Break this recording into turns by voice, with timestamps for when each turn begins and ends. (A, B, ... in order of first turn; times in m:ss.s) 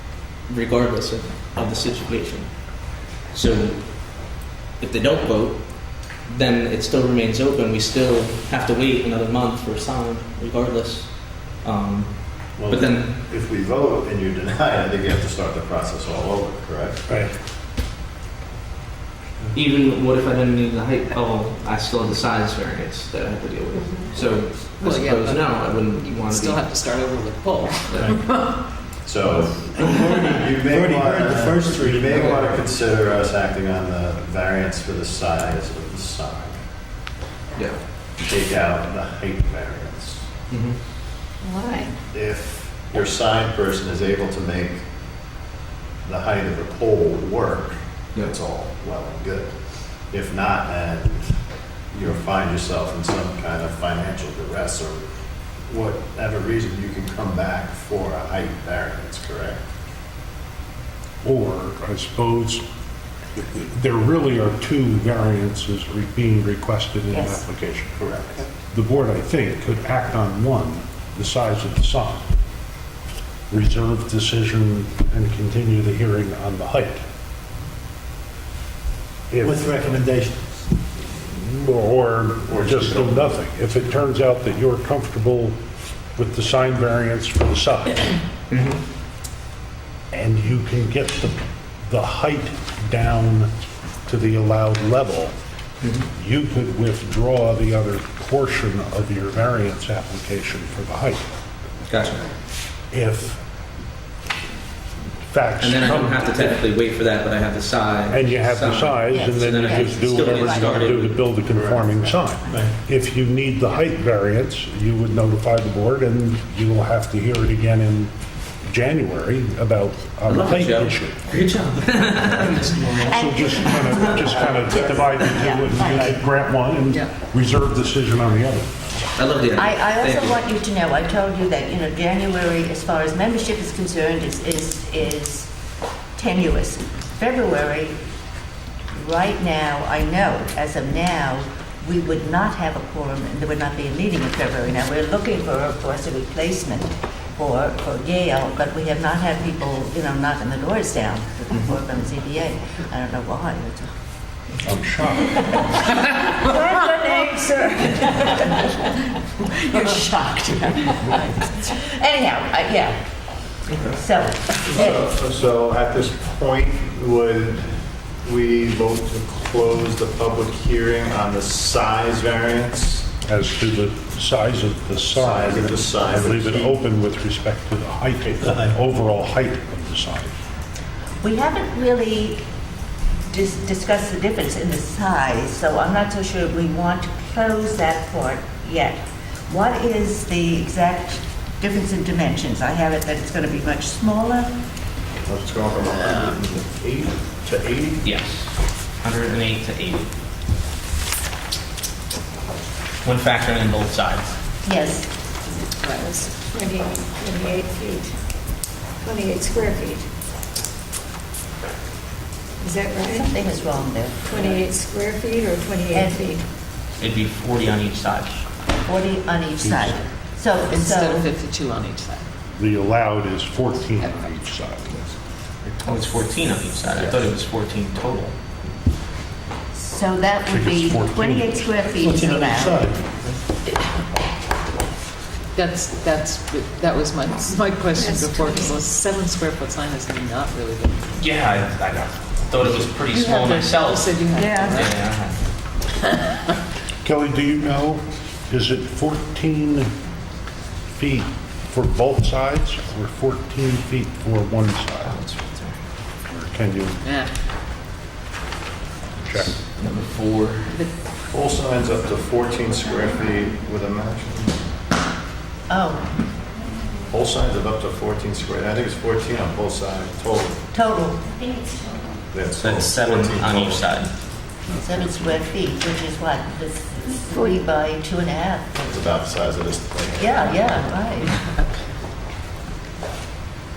0:00.5-0:02.6 A
0:03.3-0:04.2 A
0:04.8-0:13.2 A
0:12.6-0:17.3 B
0:19.5-0:26.8 A
0:24.8-0:28.5 C
0:27.9-0:28.2 A
0:29.0-0:36.6 B
0:30.6-0:32.6 D
0:38.2-0:40.3 B
0:40.5-0:40.8 A
0:41.4-0:42.0 E
0:42.1-0:44.8 B
0:46.0-0:49.5 B
0:50.1-0:51.3 B
0:51.9-0:55.0 B
0:55.7-0:59.6 B
1:01.2-1:02.6 F
1:03.3-1:08.2 F
1:07.1-1:07.4 G
1:08.7-1:12.3 F
1:13.5-1:17.0 F
1:19.3-1:19.7 F
1:19.4-1:20.4 D
1:21.3-1:25.6 F
1:22.5-1:23.2 B
1:26.2-1:28.2 F
1:28.5-1:28.8 A
1:30.1-1:33.5 F
1:34.1-1:35.3 F
1:35.8-1:36.1 A
1:36.2-1:41.2 F
1:41.9-1:42.3 A
1:42.9-1:43.4 F
1:45.3-1:46.3 F
1:45.6-1:51.2 A
1:48.1-1:58.1 F
1:49.1-1:50.9 G
1:51.5-1:51.8 B
1:58.6-2:01.2 F
2:00.3-2:03.1 A
2:02.9-2:06.2 G
2:03.1-2:08.9 F
2:09.2-2:10.4 A
2:09.6-2:15.5 G
2:16.2-2:18.0 G
2:18.9-2:33.9 G
2:34.6-2:35.6 F
2:35.4-2:43.0 G
2:43.7-2:44.0 A
2:43.9-2:45.0 G
2:44.7-2:47.6 B
2:48.2-2:53.1 B
2:53.2-3:00.4 F
2:55.1-2:56.8 B
2:58.4-2:58.7 D
3:01.2-3:02.4 G
3:03.3-3:14.5 G
3:15.3-3:18.0 B
3:18.0-3:18.5 A
3:19.0-3:20.1 A
3:23.0-3:24.3 A
3:24.6-3:25.1 G
3:25.5-3:26.4 C
3:26.5-3:28.1 E
3:29.0-3:30.1 E
3:32.6-3:33.3 E
3:33.0-3:34.7 G
3:34.3-3:36.4 E
3:35.9-3:36.2 G
3:37.0-3:38.4 A
3:38.9-3:41.3 G
3:39.6-3:40.0 F
3:40.7-3:42.3 C
3:42.5-3:45.2 F
3:43.9-3:44.4 C
3:45.8-3:48.4 A
3:49.7-3:52.9 G
3:50.5-3:51.8 F
3:52.0-3:53.0 D
3:55.6-4:01.2 C
3:58.0-3:58.7 E
4:01.2-4:05.4 A
4:03.2-4:05.0 C
4:04.4-4:04.7 E
4:07.0-4:09.9 F
4:10.9-4:15.2 F
4:15.0-4:15.8 A
4:16.3-4:17.0 F
4:17.0-4:17.3 C
4:19.2-4:19.6 F
4:19.4-4:20.8 A
4:21.3-4:24.5 B
4:25.7-4:26.1 G
4:27.1-4:30.6 B
4:30.7-4:31.3 G
4:32.3-4:34.0 B
4:32.6-4:34.1 A
4:34.8-4:39.0 G
4:38.8-4:40.6 B
4:40.2-4:41.3 G